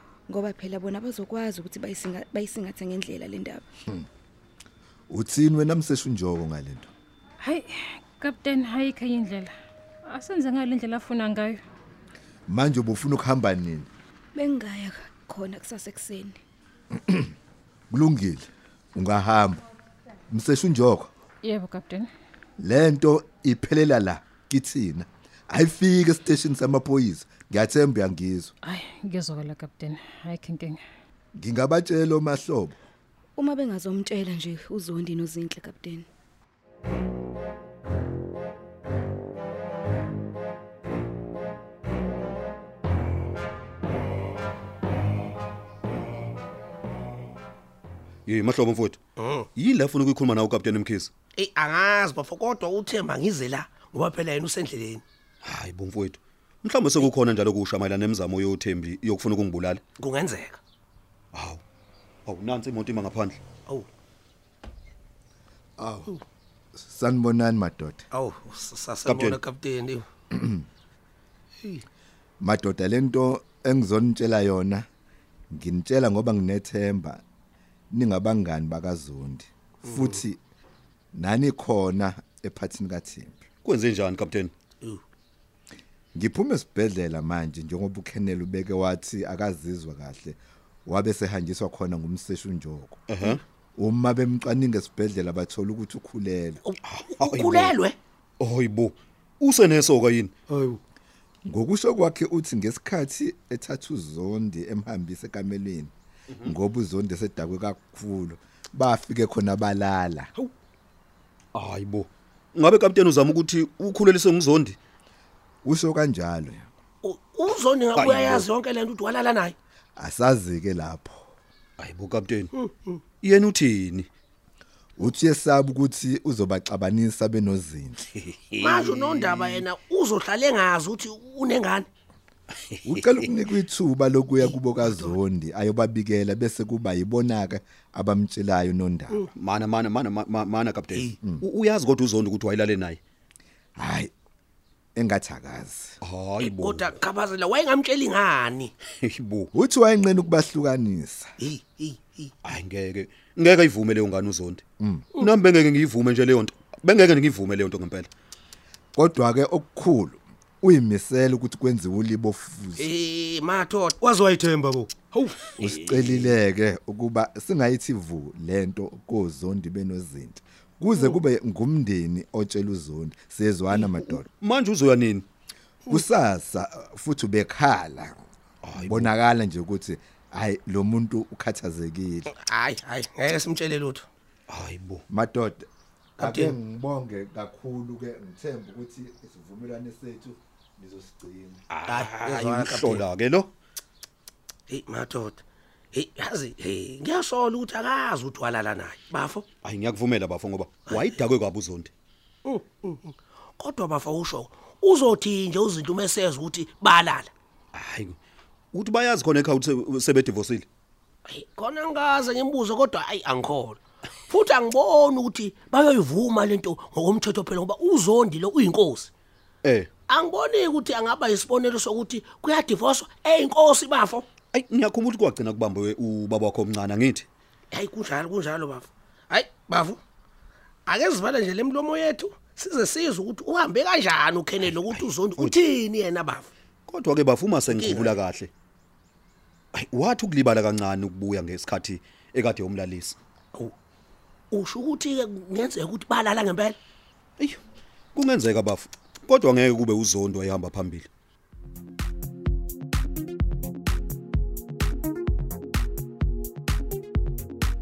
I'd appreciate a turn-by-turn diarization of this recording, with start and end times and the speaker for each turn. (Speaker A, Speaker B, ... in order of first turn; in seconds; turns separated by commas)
Speaker A: 0.3-3.7, Speaker B: 5.1-6.9, Speaker C: 7.4-9.5, Speaker C: 10.1-11.6, Speaker B: 12.5-13.9, Speaker A: 14.3-16.4, Speaker B: 17.1-17.3, Speaker B: 17.9-19.6, Speaker B: 20.3-21.1, Speaker C: 21.4-22.1, Speaker B: 22.6-28.5, Speaker C: 28.6-30.8, Speaker B: 31.4-32.8, Speaker A: 33.4-36.1, Speaker D: 48.3-49.0, Speaker E: 49.2-49.5, Speaker D: 49.6-51.1, Speaker E: 51.4-55.0, Speaker D: 55.4-59.8, Speaker E: 60.0-60.6, Speaker D: 61.3-61.6, Speaker D: 62.3-63.4, Speaker B: 65.8-66.2, Speaker B: 66.8-68.0, Speaker E: 68.1-70.0, Speaker D: 69.0-69.4, Speaker B: 70.3-70.6, Speaker B: 72.4-74.9, Speaker B: 75.5-77.2, Speaker B: 77.9-80.4, Speaker E: 79.9-80.2, Speaker B: 81.1-83.4, Speaker D: 83.7-84.5, Speaker B: 86.2-93.0, Speaker D: 93.1-93.4, Speaker B: 93.8-96.6, Speaker E: 96.7-98.0, Speaker D: 96.8-97.8, Speaker D: 98.4-100.3, Speaker E: 100.5-100.8, Speaker B: 101.5-105.9, Speaker B: 106.4-110.3, Speaker D: 111.5-114.8, Speaker B: 115.6-116.7, Speaker E: 117.0-119.5, Speaker D: 118.0-118.5, Speaker B: 120.0-121.2, Speaker D: 121.8-122.5, Speaker E: 122.6-123.0, Speaker D: 123.2-124.1, Speaker B: 125.0-128.1, Speaker D: 128.3-129.6, Speaker E: 128.6-131.9, Speaker B: 132.8-139.2, Speaker E: 134.4-135.1, Speaker D: 139.3-143.0, Speaker B: 143.8-144.1, Speaker B: 145.0-146.0, Speaker D: 146.0-147.0, Speaker E: 146.4-148.7, Speaker D: 149.0-149.5, Speaker B: 149.5-151.3, Speaker E: 151.4-152.3, Speaker D: 152.4-154.6, Speaker B: 154.8-155.1, Speaker D: 155.2-158.1, Speaker B: 158.9-162.9, Speaker E: 162.8-165.6, Speaker B: 165.6-174.3, Speaker D: 174.4-175.3, Speaker B: 175.9-178.2, Speaker D: 178.6-179.1, Speaker B: 178.8-182.3, Speaker E: 182.3-184.1, Speaker D: 184.5-185.0, Speaker B: 185.1-185.7, Speaker E: 186.2-186.6, Speaker B: 186.2-191.6, Speaker D: 191.7-193.5, Speaker E: 191.9-193.0, Speaker E: 194.7-199.4, Speaker D: 199.6-201.9, Speaker E: 202.4-207.3, Speaker D: 207.7-208.2, Speaker D: 208.7-210.7, Speaker E: 211.3-219.1, Speaker D: 219.6-219.9, Speaker E: 220.1-224.3, Speaker D: 224.5-227.3, Speaker E: 227.7-230.0, Speaker E: 230.9-236.5, Speaker D: 234.9-235.6, Speaker D: 236.9-238.5, Speaker E: 237.7-238.2, Speaker D: 239.7-243.2, Speaker E: 244.5-246.8, Speaker D: 248.2-251.1